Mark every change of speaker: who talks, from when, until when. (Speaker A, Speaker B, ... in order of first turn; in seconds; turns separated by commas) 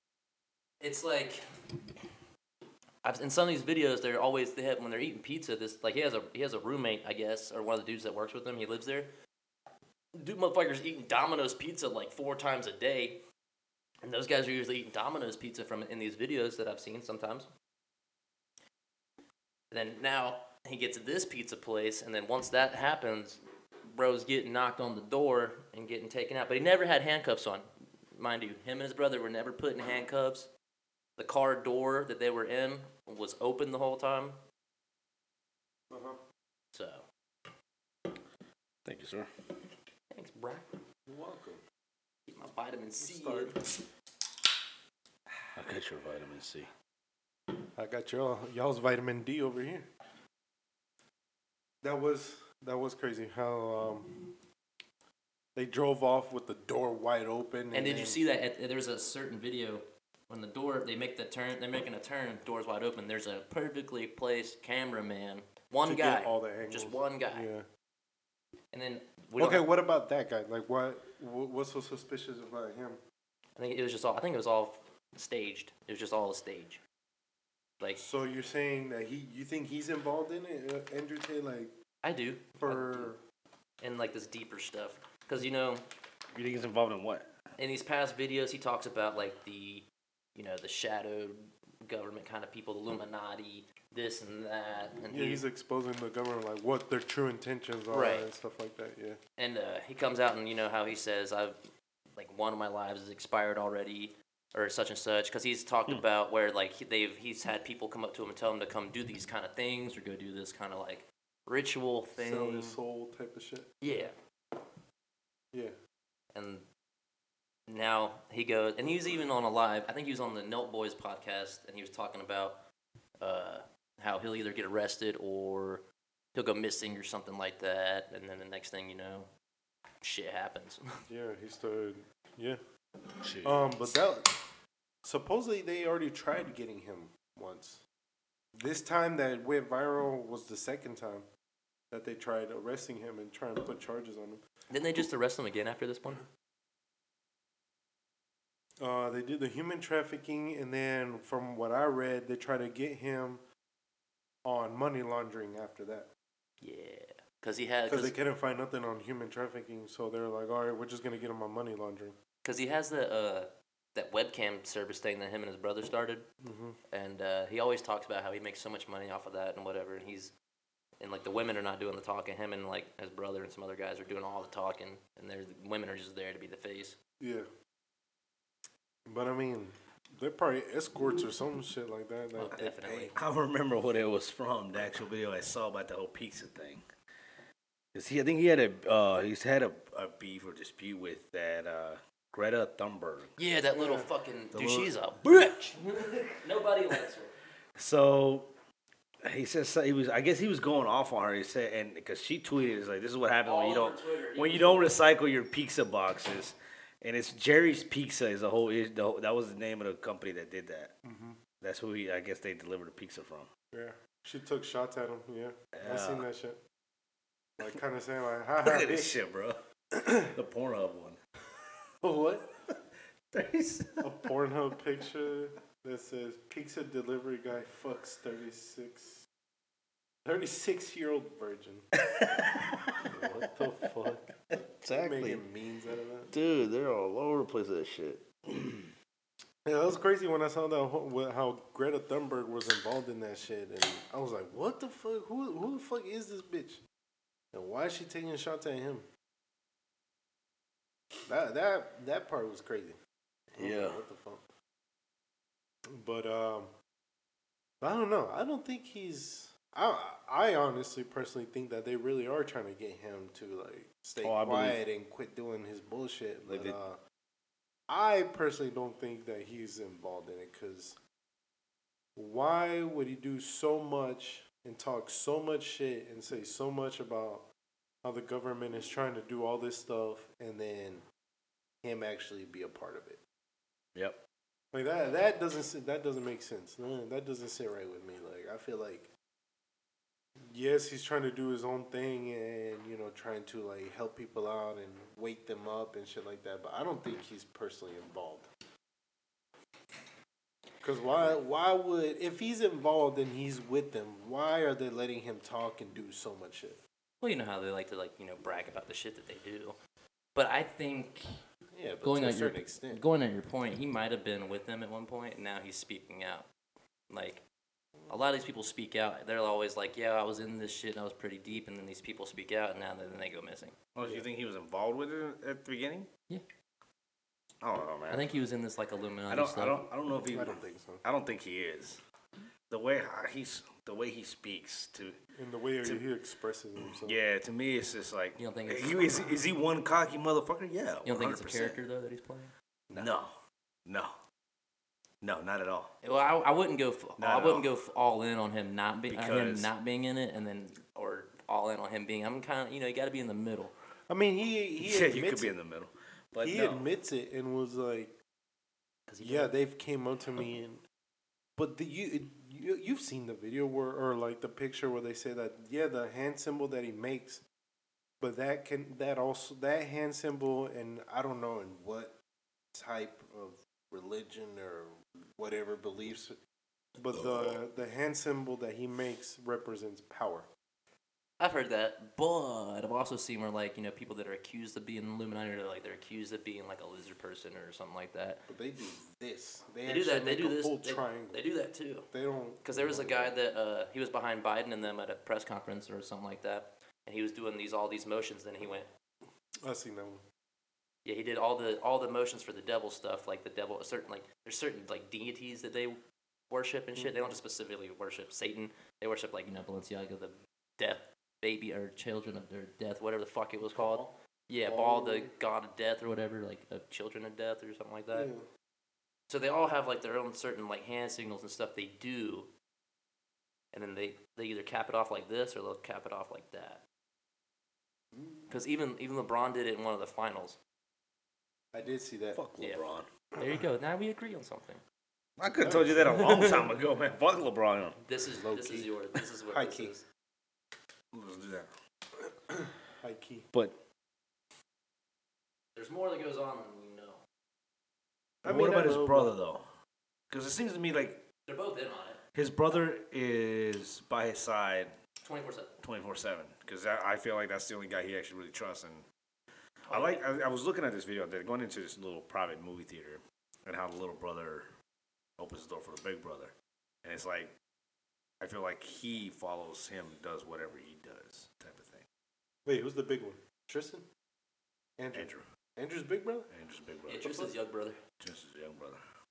Speaker A: 0.8-1.4, Speaker A: 3.0-9.1, Speaker A: 10.1-13.2, Speaker A: 14.0-17.5, Speaker A: 19.7-30.5, Speaker A: 31.2-34.4, Speaker B: 35.9-36.2, Speaker A: 36.7-37.0, Speaker C: 38.8-39.3, Speaker A: 40.1-40.7, Speaker B: 41.1-41.6, Speaker A: 42.3-43.6, Speaker B: 43.0-43.8, Speaker C: 45.5-46.7, Speaker B: 47.8-49.9, Speaker B: 51.8-54.4, Speaker B: 55.5-58.2, Speaker A: 57.7-67.5, Speaker B: 65.8-67.7, Speaker A: 68.7-69.7, Speaker B: 69.4-73.0, Speaker A: 73.5-76.8, Speaker B: 78.0-81.7, Speaker A: 82.0-83.1, Speaker B: 82.6-83.2, Speaker A: 83.8-85.8, Speaker C: 86.3-87.3, Speaker A: 87.6-95.4, Speaker B: 95.1-99.2, Speaker A: 97.9-98.3, Speaker A: 99.4-101.6, Speaker A: 102.2-112.8, Speaker B: 112.2-113.7, Speaker A: 113.8-114.1, Speaker A: 116.3-116.7, Speaker A: 117.7-122.6, Speaker A: 123.2-129.3, Speaker A: 130.0-130.9, Speaker B: 131.1-132.6, Speaker C: 133.2-133.7, Speaker B: 133.4-134.4, Speaker B: 135.0-137.8, Speaker B: 138.6-141.3, Speaker B: 141.9-144.4, Speaker A: 144.7-146.2, Speaker B: 148.8-153.4, Speaker B: 154.4-156.1, Speaker A: 156.6-158.1, Speaker B: 157.9-162.2, Speaker A: 162.4-166.3, Speaker B: 166.4-166.8, Speaker A: 166.9-170.3, Speaker A: 171.0-176.9, Speaker B: 177.2-177.5, Speaker B: 179.1-183.1, Speaker A: 182.3-183.2, Speaker C: 183.1-186.8, Speaker C: 187.9-193.3, Speaker A: 193.4-197.3, Speaker B: 193.7-194.1, Speaker C: 194.5-196.1, Speaker C: 197.8-198.5, Speaker C: 199.2-210.9, Speaker A: 203.4-205.0, Speaker B: 211.0-211.4, Speaker C: 211.6-213.5, Speaker B: 213.7-216.6, Speaker C: 215.7-216.2, Speaker B: 217.6-219.1, Speaker C: 218.6-219.6, Speaker B: 219.9-220.3, Speaker C: 220.3-221.2, Speaker B: 222.0-222.5, Speaker C: 223.3-224.1, Speaker B: 224.0-229.2, Speaker B: 230.2-231.9, Speaker C: 232.1-233.5, Speaker B: 233.0-234.3, Speaker C: 234.1-235.4, Speaker B: 234.9-236.3, Speaker C: 236.3-238.9, Speaker B: 239.6-246.8, Speaker B: 247.5-249.1, Speaker B: 251.2-253.0, Speaker B: 253.5-254.5, Speaker C: 253.6-254.0, Speaker B: 255.9-256.7, Speaker B: 257.8-267.0, Speaker C: 264.2-264.8, Speaker C: 266.5-266.8, Speaker B: 267.9-271.0, Speaker B: 272.1-277.5, Speaker B: 278.0-281.0, Speaker B: 281.8-283.2, Speaker C: 283.9-284.2, Speaker B: 284.7-289.1, Speaker B: 290.5-298.5, Speaker B: 300.8-306.8, Speaker A: 307.2-309.8, Speaker A: 310.3-311.4, Speaker B: 311.7-313.0, Speaker A: 312.0-316.5, Speaker A: 317.1-317.4, Speaker A: 318.1-323.8, Speaker C: 323.9-326.1, Speaker C: 327.6-328.3, Speaker A: 328.1-329.8, Speaker C: 329.3-332.0, Speaker B: 330.3-331.0, Speaker C: 332.7-335.2, Speaker B: 335.3-337.2, Speaker C: 336.8-341.8, Speaker A: 338.4-339.4, Speaker A: 341.0-342.5, Speaker C: 342.9-343.3, Speaker C: 343.9-344.1, Speaker C: 345.2-345.9, Speaker A: 346.0-353.7, Speaker C: 347.2-347.7, Speaker C: 349.1-349.7, Speaker B: 354.1-355.5, Speaker C: 354.8-356.9, Speaker B: 356.4-358.2, Speaker A: 359.1-359.5, Speaker B: 359.2-360.8, Speaker B: 361.6-367.4, Speaker B: 368.2-372.1, Speaker B: 372.7-376.4, Speaker B: 377.0-380.5, Speaker C: 377.1-377.6, Speaker A: 381.4-388.4, Speaker B: 388.5-391.4, Speaker A: 389.9-392.1, Speaker B: 392.1-393.3, Speaker A: 392.6-398.9, Speaker B: 399.6-400.2, Speaker A: 401.0-406.0, Speaker A: 406.5-418.3, Speaker B: 406.9-407.3, Speaker B: 413.7-415.3, Speaker B: 418.1-418.4, Speaker A: 419.3-422.5, Speaker A: 423.7-426.8, Speaker B: 428.1-428.5, Speaker A: 428.5-430.6, Speaker B: 431.7-432.4, Speaker C: 432.3-433.1, Speaker A: 433.4-434.8, Speaker C: 435.4-438.0, Speaker B: 435.5-436.5, Speaker A: 438.0-440.1, Speaker B: 438.3-438.9, Speaker B: 439.5-439.9, Speaker C: 441.1-441.7, Speaker B: 442.5-443.5, Speaker C: 443.5-443.8, Speaker A: 445.7-447.2, Speaker B: 448.4-449.3, Speaker C: 448.4-449.6, Speaker C: 450.3-451.2, Speaker A: 451.5-452.2, Speaker C: 452.3-454.9, Speaker A: 455.2-455.8, Speaker C: 455.8-459.0, Speaker A: 459.9-460.2, Speaker C: 459.9-464.7, Speaker C: 465.4-467.5, Speaker C: 468.4-472.1, Speaker B: 472.6-474.0, Speaker B: 475.0-476.5, Speaker C: 475.1-475.4, Speaker C: 476.5-477.3, Speaker A: 477.1-478.0, Speaker B: 477.2-477.5, Speaker C: 478.2-479.0